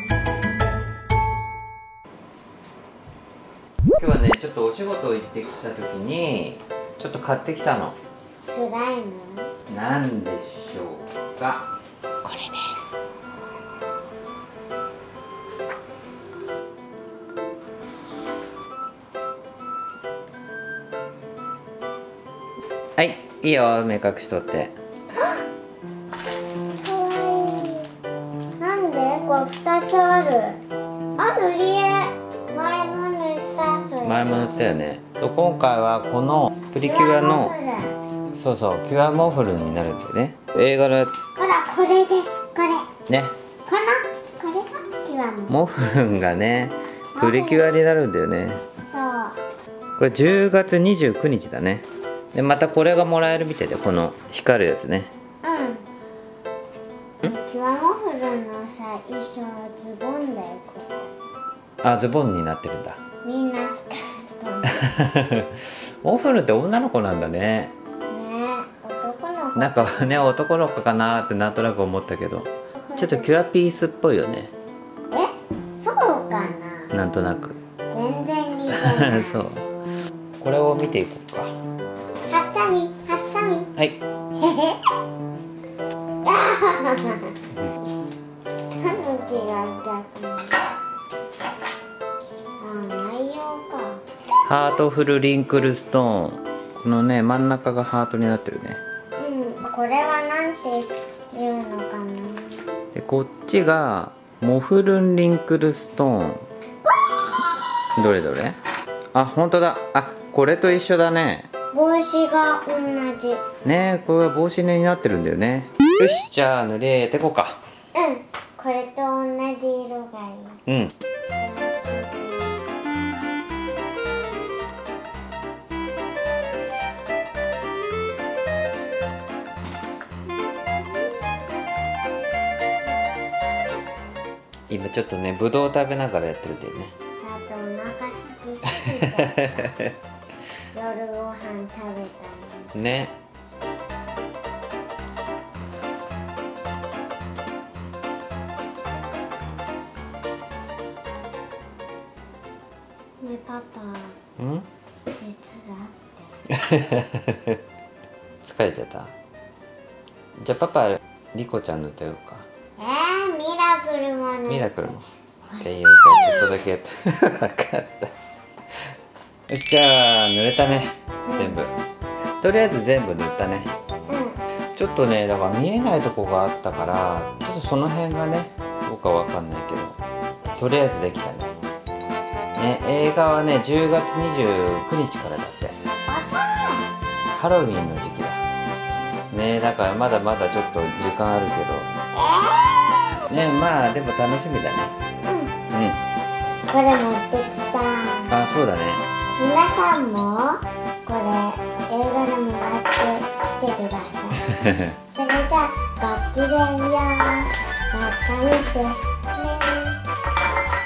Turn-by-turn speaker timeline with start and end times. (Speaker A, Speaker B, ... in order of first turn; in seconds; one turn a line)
Speaker A: 4.0-8.0
Speaker B: 8.4-9.5
Speaker A: 9.7-11.7
Speaker B: 12.2-13.0
Speaker A: 23.0-24.7
Speaker B: 26.8-27.9
Speaker B: 28.6-30.6
Speaker B: 31.2-34.5
Speaker A: 34.0-37.5
Speaker B: 36.8-38.0
Speaker A: 38.3-41.3
Speaker B: 41.4-42.9
Speaker A: 43.1-43.4
Speaker B: 43.7-45.6
Speaker A: 45.5-48.6
Speaker B: 47.1-47.8
Speaker B: 48.9-49.4
Speaker A: 50.0-55.1
Speaker B: 55.4-55.9
Speaker B: 57.2-61.1
Speaker A: 61.8-63.0
Speaker B: 63.2-64.8
Speaker A: 64.7-67.7
Speaker B: 68.1-70.0
Speaker A: 69.5-74.5
Speaker B: 72.8-73.3
Speaker B: 75.1-76.9
Speaker A: 76.9-77.6
Speaker B: 77.9-79.5
Speaker A: 78.7-79.7
Speaker A: 80.4-81.5
Speaker B: 82.3-83.7
Speaker B: 84.4-84.8
Speaker B: 86.2-88.0
Speaker B: 88.7-90.6
Speaker B: 92.6-94.0
Speaker A: 94.5-98.8
Speaker B: 99.2-102.6
Speaker A: 102.9-106.5
Speaker A: 108.0-108.6
Speaker A: 109.1-111.5
Speaker B: 111.7-113.4
Speaker A: 113.6-117.6
Speaker B: 117.9-120.6
Speaker A: 120.7-120.9
Speaker B: 121.3-122.6
Speaker A: 134.7-136.9
Speaker B: 137.2-139.7
Speaker A: 138.7-139.9
Speaker B: 140.7-142.8
Speaker A: 142.8-143.1
Speaker B: 153.2-154.2
Speaker A: 154.4-154.7
Speaker B: 155.1-156.4
Speaker A: 156.5-157.6
Speaker A: 158.4-159.1
Speaker A: 160.4-162.5
Speaker B: 162.8-164.8
Speaker A: 164.5-165.1
Speaker B: 165.5-166.5
Speaker A: 165.6-168.1
Speaker A: 169.5-171.7
Speaker B: 171.3-171.6
Speaker A: 172.4-173.7
Speaker B: 174.1-174.4
Speaker A: 174.8-180.0
Speaker A: 180.6-181.5
Speaker A: 182.6-185.8
Speaker B: 186.1-186.9
Speaker A: 187.3-188.4
Speaker A: 189.3-191.9
Speaker B: 192.1-193.2
Speaker A: 193.3-194.9
Speaker B: 195.2-195.5
Speaker A: 195.7-196.0
Speaker B: 196.7-198.4
Speaker A: 198.3-199.0
Speaker B: 199.4-204.5
Speaker A: 204.5-204.9
Speaker B: 205.1-210.0